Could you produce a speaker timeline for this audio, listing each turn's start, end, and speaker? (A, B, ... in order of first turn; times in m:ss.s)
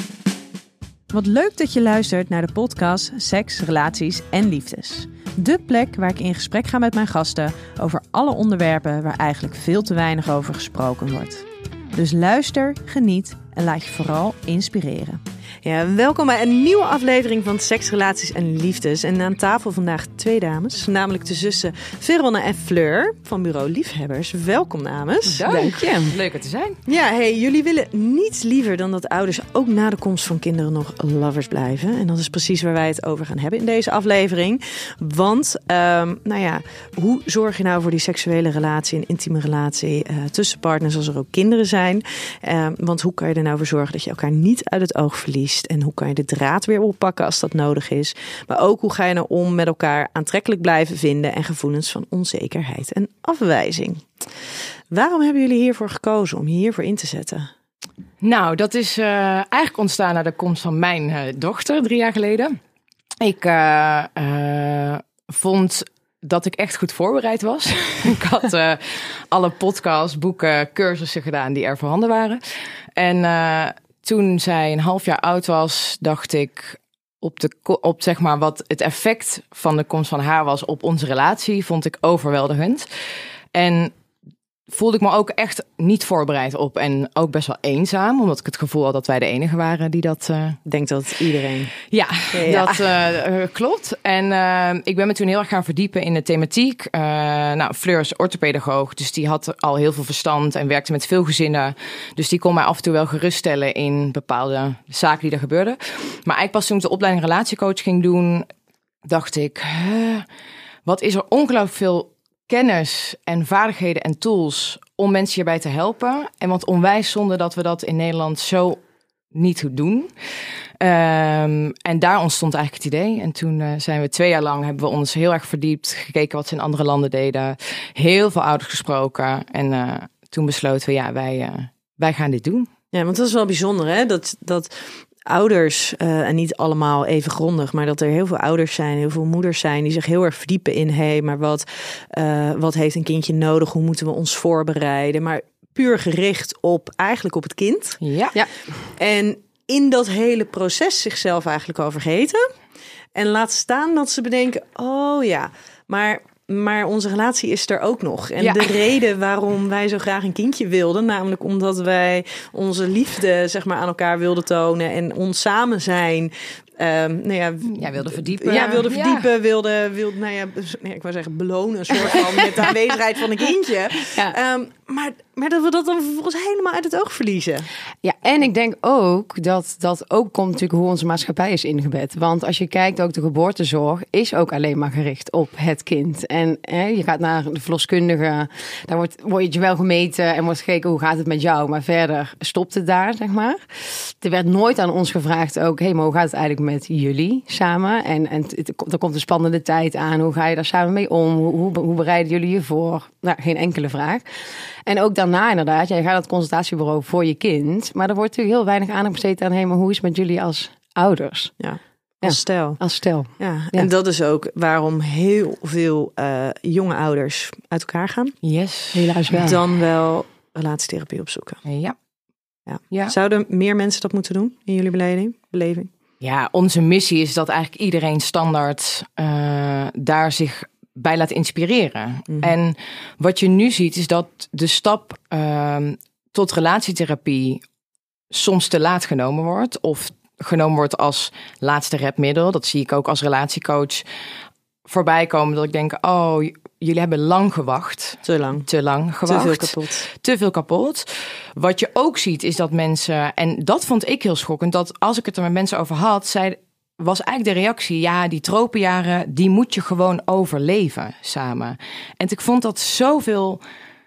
0:01.1-0:25.4 A
0:25.3-0:26.8 B
0:25.4-0:26.1 C
0:26.8-0:54.2 A
0:54.9-0:57.5 A
0:58.2-1:02.6 B
1:03.2-1:12.4 B
1:13.0-1:22.9 B
1:23.5-1:23.9 B
1:24.7-1:30.6 B
1:30.6-1:31.8 A
1:31.9-1:48.5 B
1:32.3-1:32.8 A
1:49.0-1:50.3 B
1:50.8-2:00.1 B
2:00.8-2:12.7 B
2:12.9-2:28.0 A
2:28.0-2:28.4 B
2:29.0-2:32.5 A
2:33.1-2:57.7 A
2:38.4-2:38.8 B
2:47.6-2:49.3 B
2:48.5-2:48.8 C
2:58.0-3:31.5 C
3:31.6-3:32.8 A
3:32.2-3:33.9 C
3:33.4-3:38.4 A
3:38.4-3:39.2 B
3:38.9-3:39.6 C
3:39.4-3:41.6 A
3:41.6-3:42.0 B
3:42.7-3:45.9 A
3:46.2-3:57.6 B
3:52.3-3:52.5 A
3:58.3-4:04.0 B
4:04.8-4:23.6 B
4:08.2-4:08.7 A
4:09.2-4:10.1 A